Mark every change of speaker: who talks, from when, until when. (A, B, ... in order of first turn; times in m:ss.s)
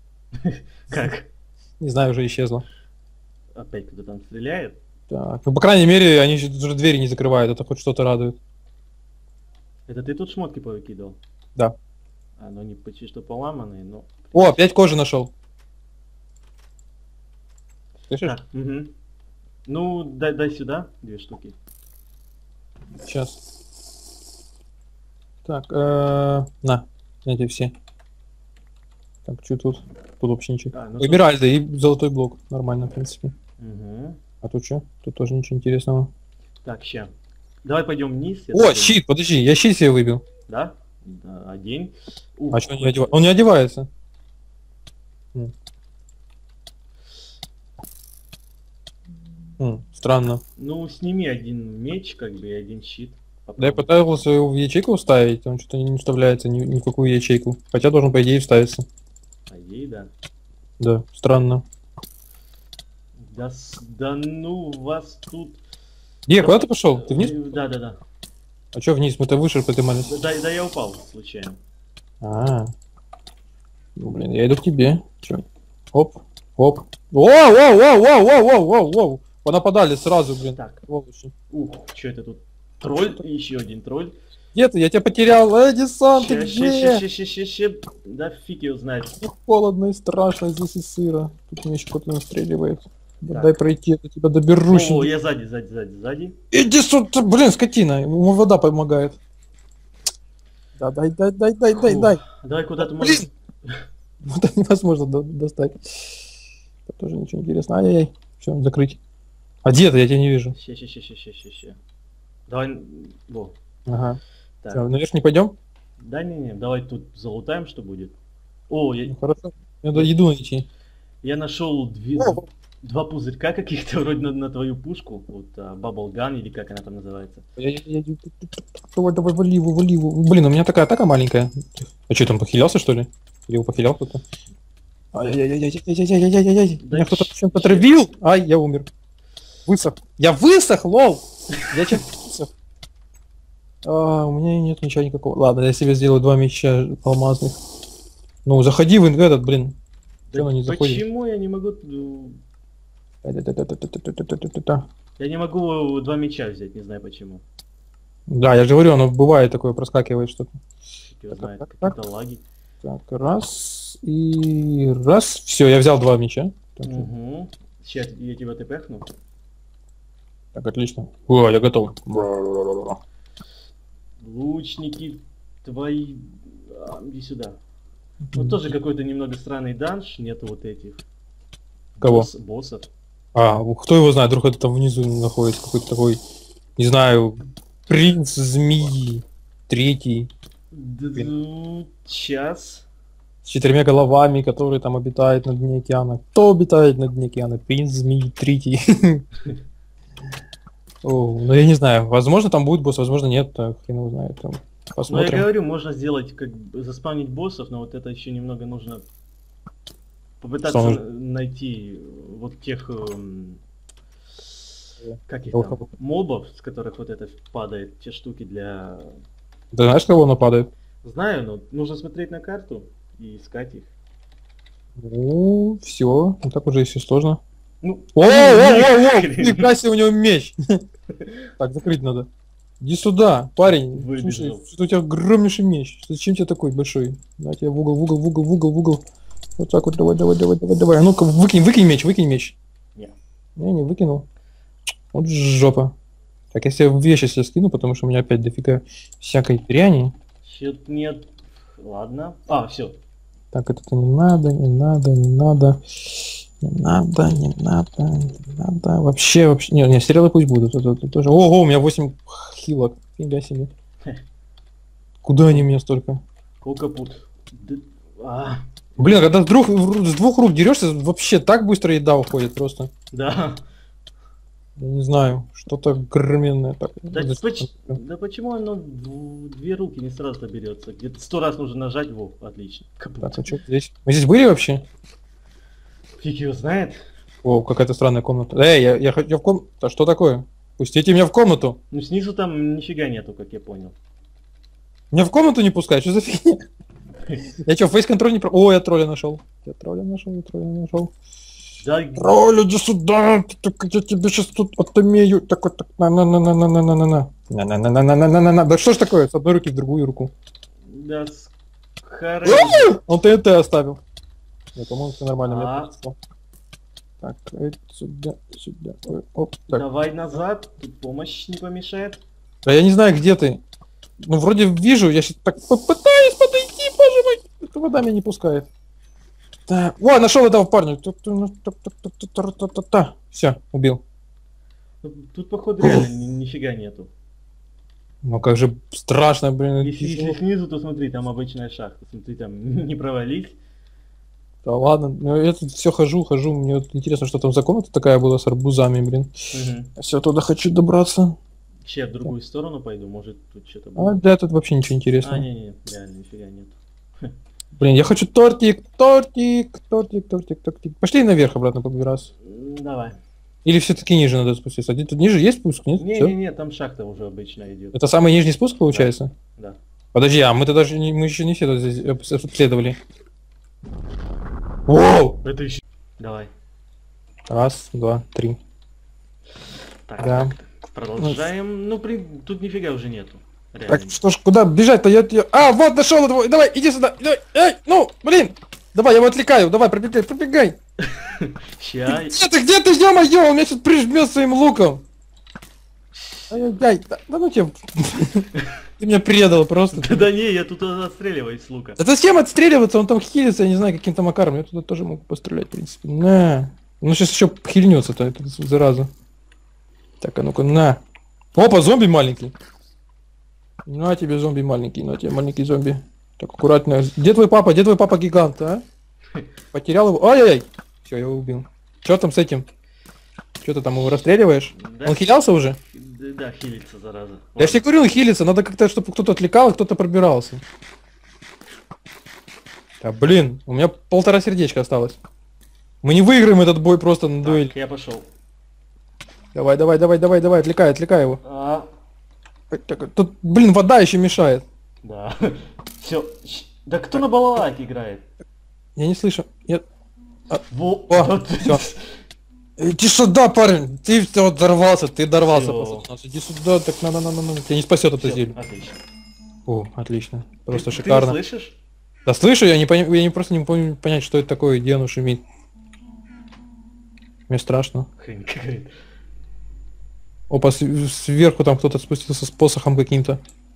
0:00.4-0:01.3 A
0:01.8-0:02.6 B
0:03.6-0:04.8 A
0:05.1-0:08.4 B
0:09.9-0:11.2 A
0:12.4-0:14.6 A
0:14.3-0:15.3 B
0:18.1-0:18.4 B
0:18.2-0:18.9 A
0:19.7-0:21.6 A
0:23.0-0:23.4 B
0:25.4-0:27.7 B
0:29.3-0:33.3 B
0:30.7-0:31.3 A
0:33.6-0:34.2 A
0:34.4-0:36.1 B
0:36.6-0:37.1 A
0:37.6-0:39.0 A
0:38.5-0:40.2 B
0:40.5-0:43.3 A
0:42.5-0:43.9 B
0:49.6-0:50.4 B
0:50.6-0:53.9 A
0:53.6-0:58.8 B
0:59.5-1:00.1 A
1:00.8-1:01.6 B
1:03.3-1:05.6 A
1:06.3-1:07.4 B
1:06.4-1:08.0 A
1:08.7-1:10.1 B
1:10.1-1:11.6 A
1:12.2-1:12.7 B
1:14.0-1:21.3 B
1:20.6-1:20.8 A
1:21.5-1:24.2 A
1:24.6-1:27.0 B
1:26.1-1:29.2 A
1:29.2-1:35.1 B
1:33.3-1:33.6 A
1:34.7-1:36.4 A
1:36.5-1:39.2 B
1:40.8-1:42.2 B
1:41.7-1:43.8 A
1:42.8-1:43.3 B
1:44.2-1:46.2 B
1:46.9-1:49.0 B
1:49.6-1:50.6 B
1:50.5-1:51.8 A
1:52.5-1:53.6 A
1:53.9-1:54.2 B
1:54.7-1:55.6 B
1:56.0-1:58.2 A
1:58.7-1:59.2 A
1:59.1-2:00.7 B
2:01.2-2:07.4 A
2:02.2-2:02.4 B
2:07.6-2:14.3 B
2:15.1-2:18.9 B
2:16.8-2:17.9 A
2:19.7-2:22.5 B
2:23.8-2:27.6 B
2:28.4-2:29.8 B
2:30.3-2:32.4 A
2:30.4-2:31.0 B
2:33.2-2:34.9 B
2:35.2-2:37.4 A
2:38.3-2:40.6 B
2:41.1-2:42.4 A
2:41.3-2:41.9 B
2:42.8-2:47.1 B
2:46.8-2:49.1 A
2:50.6-2:53.0 B
2:54.2-2:57.6 A
2:58.3-2:58.6 B
2:58.4-3:01.0 A
3:02.0-3:02.9 A
3:02.0-3:02.3 B
3:03.4-3:06.2 B
3:06.8-3:10.3 B
3:10.7-3:12.9 A
3:13.4-3:19.2 B
3:21.0-3:25.5 B
3:25.1-3:29.0 A
3:30.4-3:33.6 A
3:30.6-3:31.0 B
3:35.0-3:35.9 B
3:35.3-3:39.2 A
3:39.7-3:40.7 B
3:41.0-3:43.9 A
3:45.0-3:47.4 B
3:47.8-3:49.7 A
3:48.2-3:50.8 B
3:51.6-3:52.3 B
3:52.8-3:59.0 B
3:53.7-3:54.6 A
3:59.6-4:02.6 B
4:03.6-4:04.3 B
4:05.1-4:05.9 B
4:06.5-4:10.1 B
4:10.4-4:11.3 A
4:11.8-4:13.0 A
4:13.5-4:23.7 B
4:25.2-4:26.2 B
4:26.6-4:29.2 A
4:29.0-4:32.9 B
4:33.1-4:33.6 A
4:34.8-4:38.0 B
4:37.1-4:43.5 A
4:43.2-4:44.8 B
4:46.2-4:47.0 A
4:47.4-4:51.8 B
4:51.9-4:54.0 A
4:55.1-4:56.6 B
4:57.6-5:01.1 B
5:01.8-5:02.3 A
5:02.2-5:10.3 B
5:10.9-5:12.9 A
5:12.4-5:14.0 B
5:14.8-5:16.2 B
5:15.4-5:15.9 A
5:17.2-5:19.8 B
5:19.7-5:22.2 A
5:22.6-5:23.6 B
5:24.2-5:28.7 B
5:29.7-5:34.0 B
5:35.0-5:37.1 A
5:38.2-5:40.4 B
5:39.8-5:43.6 A
5:44.6-5:49.3 B
5:49.5-5:49.9 A
5:50.0-5:51.4 B
5:51.8-5:54.2 A
5:54.0-5:55.5 B
5:55.2-5:57.3 A
5:57.8-6:02.3 B
6:02.4-6:03.2 A
6:03.6-6:06.3 B
6:06.0-6:08.0 A
6:07.9-6:09.3 B
6:08.9-6:09.8 A
6:10.1-6:13.0 B
6:14.9-6:15.4 B
6:15.4-6:16.5 A
6:17.5-6:18.6 B
6:20.1-6:24.2 A
6:20.2-6:20.5 B
6:23.9-6:30.8 B
6:31.1-6:32.4 A
6:32.1-6:35.0 B
6:36.1-6:36.6 A
6:36.5-6:40.3 B
6:39.9-6:42.0 A
6:42.0-6:49.1 B
6:50.2-6:51.0 B
6:51.5-6:52.5 B
6:53.9-6:58.8 B
6:59.7-7:02.7 B
7:03.6-7:05.8 B
7:04.7-7:05.3 A
7:05.9-7:07.8 A
7:07.6-7:10.6 B
7:13.0-7:15.2 B
7:16.0-7:17.7 B
7:17.4-7:18.3 A
7:19.5-7:21.4 B
7:21.4-7:21.9 A
7:22.7-7:24.6 B
7:25.0-7:28.2 A
7:29.0-7:29.8 B
7:30.5-7:31.8 B
7:30.7-7:32.2 A
7:32.8-7:38.6 B
7:35.4-7:36.1 A
7:38.2-7:39.0 A
7:39.7-7:41.4 B
7:40.7-7:41.8 A
7:42.3-7:45.4 B
7:47.5-7:48.1 B
7:48.2-7:48.9 A
7:50.5-7:53.4 B